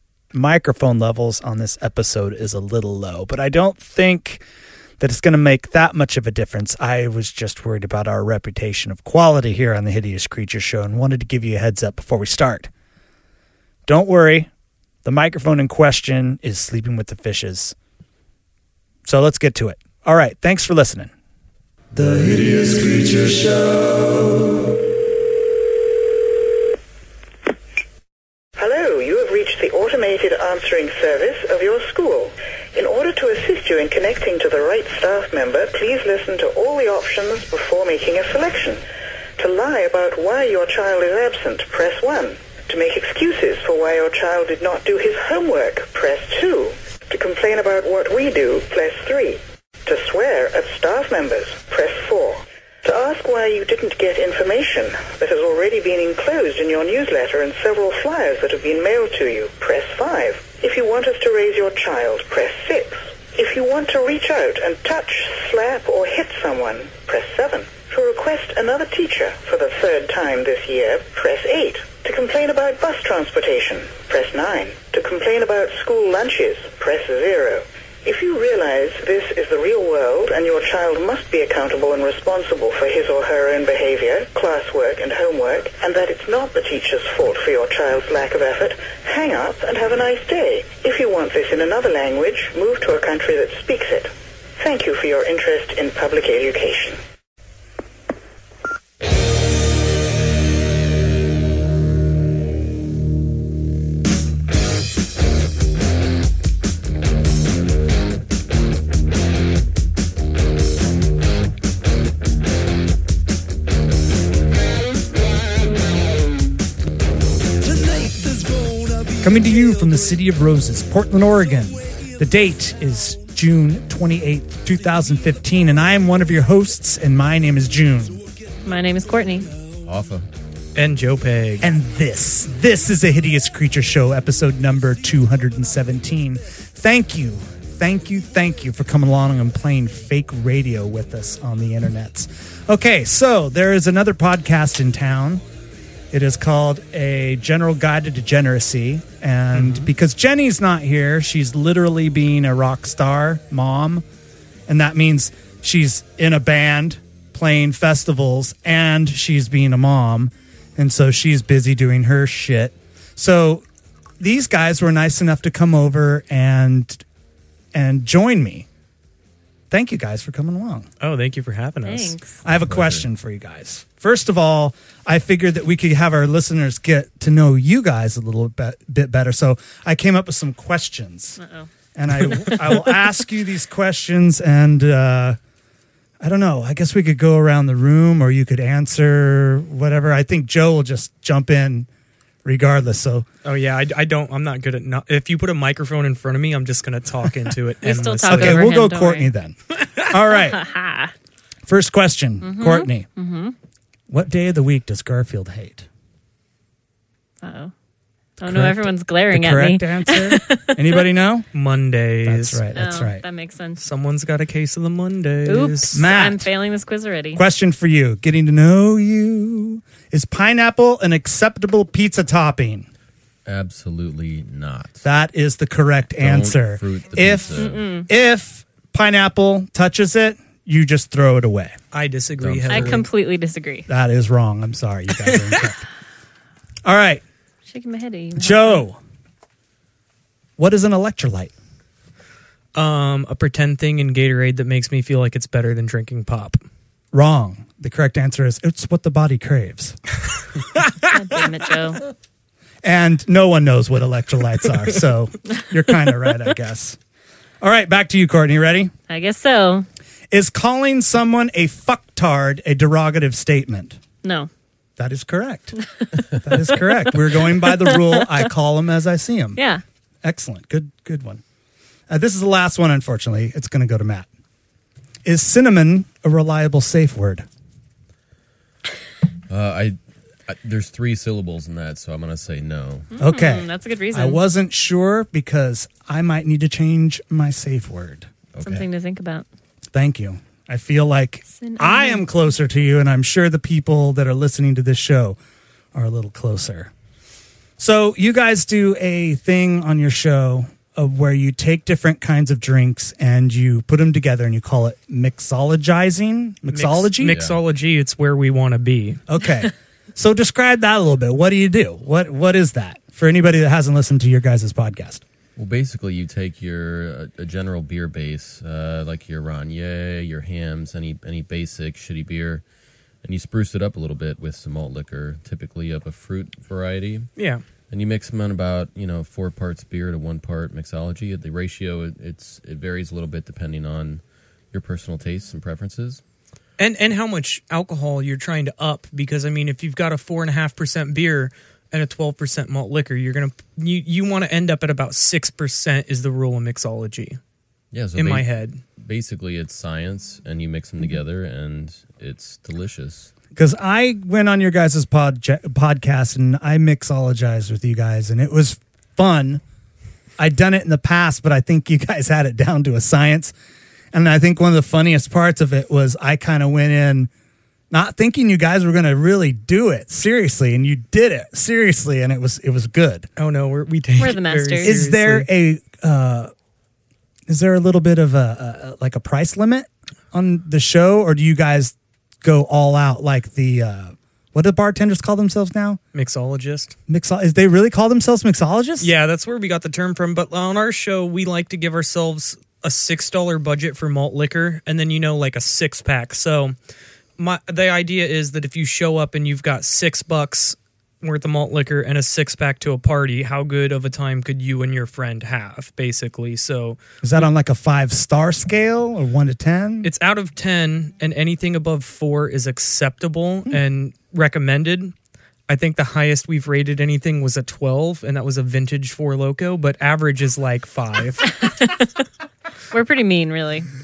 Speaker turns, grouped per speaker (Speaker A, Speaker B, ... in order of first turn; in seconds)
Speaker A: 0.3-4.4, 5.0-12.7, 13.8-14.5, 15.0-17.8, 19.0-21.1, 21.9-24.6, 119.2-128.2, 131.6-145.4, 146.1-154.0, 154.7-163.6, 164.2-167.0, 167.7-168.7, 169.7-170.9, 172.4-181.4, 181.9-185.4, 186.2-191.9, 192.4-193.3, 198.3-200.6, 201.7-203.1, 204.1-205.8, 208.4-211.5, 212.2-213.2, 215.9-216.5, 217.3-222.9, 225.0-231.8, 233.9-235.8, 236.8-237.2, 238.3-239.0, 240.6-241.5, 247.1-250.0, 252.8-257.0, 257.6-258.9, 260.3-264.0, 265.0-265.8, 266.4-269.6, 270.2-271.4, 272.1-274.3, 275.2-277.4, 283.2-288.3, 289.9-295.4, 295.9-296.9, 297.8-307.4, 309.3-315.2, 353.5-359.6, 360.4-363.5, 364.1-367.3, 367.9-373.3, 374.8-376.5, 377.5-386.0, 387.1-389.1, 407.2-410.1
Speaker B: 28.6-38.8, 39.4-97.0
Speaker C: 128.6-129.5, 171.8-172.3, 181.4-181.7, 182.3-182.7, 197.8-199.3, 200.4-201.1, 202.4-203.5, 207.4-207.7, 208.4-211.0, 212.7-213.8, 215.5-217.4, 227.5-228.1, 232.7-233.9, 237.7-238.8, 251.1-252.0, 259.1-259.9, 264.2-264.5, 266.0-268.5, 269.6-269.8, 283.1-284.4, 288.6-289.4, 291.5-292.3, 374.2-374.9, 422.9-423.9
Speaker D: 129.8-130.2, 172.7-173.0, 223.4-225.0, 226.2-228.0, 232.4-233.0, 279.5-283.1, 288.5-288.9, 307.2-307.6, 315.6-322.6, 323.2-327.3, 327.9-336.2, 347.9-353.3
Speaker E: 130.8-131.7, 149.5-149.9, 171.0-172.2, 193.4-198.7, 211.5-212.6, 213.8-216.0, 231.9-233.0, 235.2-235.7, 242.7-246.6, 306.7-309.2, 327.4-327.6, 336.8-347.4, 348.1-348.8, 373.4-375.5, 386.1-386.9, 389.0-396.7, 397.4-407.4, 410.0-415.1, 415.7-421.6